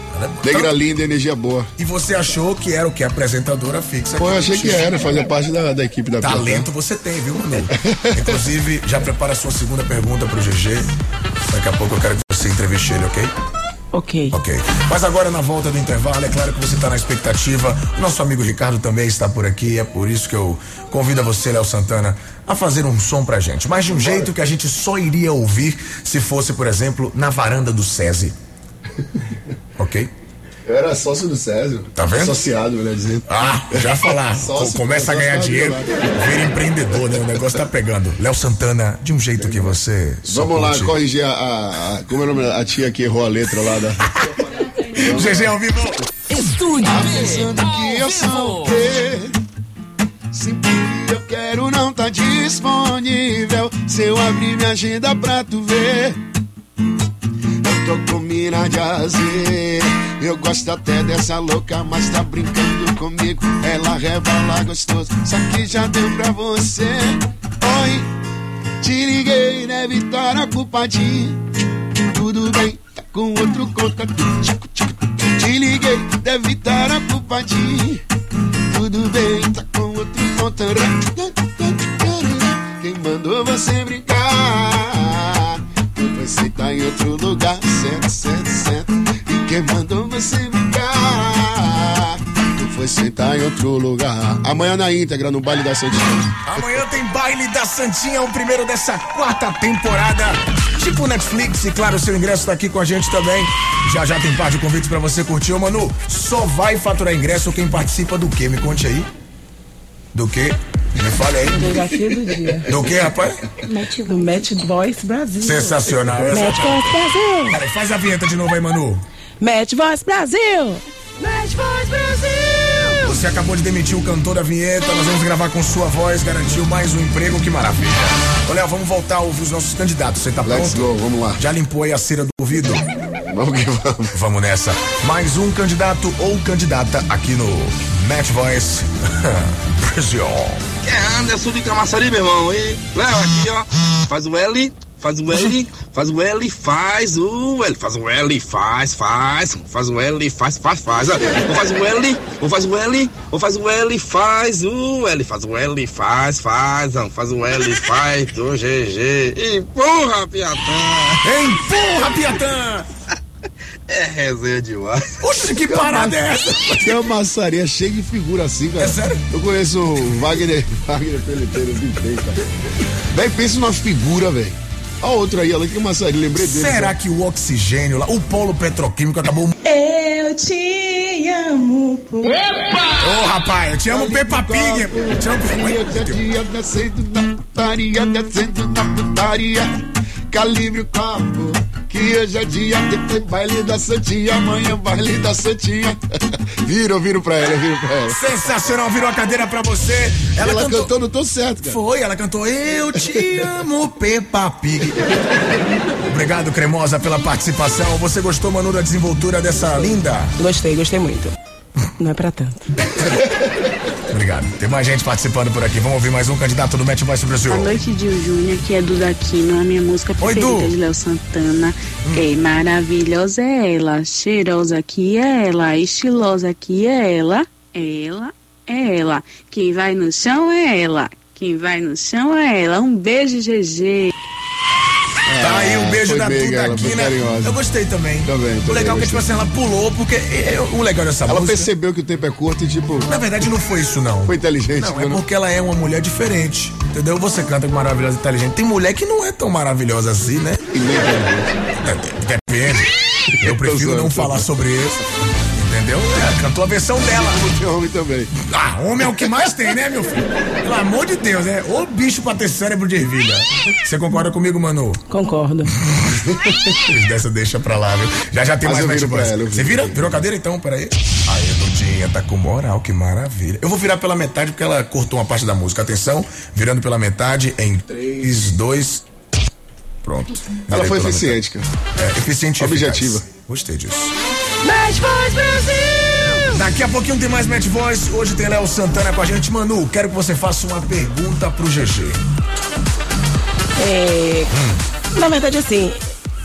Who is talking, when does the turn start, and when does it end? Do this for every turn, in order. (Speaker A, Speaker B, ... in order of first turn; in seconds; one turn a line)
Speaker A: 0.1-0.8
Speaker B: 0.4-1.7
Speaker A: 1.8-5.0
Speaker B: 4.2-6.7
Speaker A: 6.2-10.9
Speaker B: 7.7-8.3
Speaker A: 11.5-13.3
Speaker C: 13.9-14.3
Speaker A: 14.3-28.4
Speaker B: 23.9-24.3
Speaker A: 29.8-30.1
Speaker B: 30.6-36.1
Speaker A: 31.9-32.4
Speaker A: 33.3-41.0
Speaker B: 39.4-44.1
Speaker A: 44.2-46.1
Speaker B: 44.9-45.5
Speaker D: 46.3-48.8
Speaker B: 46.7-49.4
Speaker B: 50.3-56.2
Speaker B: 57.6-68.1
Speaker B: 68.8-71.4
Speaker B: 72.0-78.0
Speaker B: 78.7-96.4
Speaker A: 96.4-109.1
Speaker A: 110.1-111.7
Speaker C: 111.5-112.7
Speaker A: 112.7-113.5
Speaker C: 113.7-117.6
Speaker A: 115.4-119.0
Speaker C: 119.4-123.0
Speaker A: 123.0-132.8
Speaker B: 130.4-131.4
Speaker B: 133.3-134.2
Speaker A: 134.1-140.6
Speaker E: 140.8-161.2
Speaker A: 161.2-162.9
Speaker E: 163.9-165.1
Speaker A: 165.2-167.0
Speaker B: 165.5-166.2
Speaker B: 166.8-172.5
Speaker A: 168.8-169.2
Speaker B: 173.1-177.0
Speaker A: 176.4-179.6
Speaker C: 181.4-182.2
Speaker A: 183.0-186.3
Speaker B: 183.9-189.8
Speaker B: 190.3-198.3
Speaker A: 198.1-200.9
Speaker B: 200.4-201.8
Speaker A: 201.6-205.0
Speaker A: 206.0-210.3
Speaker C: 210.4-211.3
Speaker C: 212.0-212.7
Speaker A: 212.9-213.2
Speaker A: 214.1-217.8
Speaker F: 217.5-234.1
Speaker A: 220.2-220.8
Speaker B: 235.2-237.6
Speaker A: 235.4-241.7
Speaker B: 238.2-239.2
Speaker B: 241.2-243.2
Speaker A: 243.1-250.7
Speaker B: 244.2-245.2
Speaker B: 250.7-251.6
Speaker A: 251.8-255.0
Speaker B: 253.3-254.5
Speaker A: 255.5-257.4
Speaker B: 257.0-258.3
Speaker A: 258.4-265.0
Speaker C: 265.1-265.7
Speaker A: 265.9-279.1
Speaker B: 268.6-270.2
Speaker A: 280.0-281.4
Speaker B: 280.7-281.7
Speaker A: 281.9-284.1
Speaker B: 282.6-283.2
Speaker C: 284.6-286.4
Speaker A: 286.5-292.2
Speaker C: 293.8-294.5
Speaker A: 294.5-294.8
Speaker C: 295.1-296.0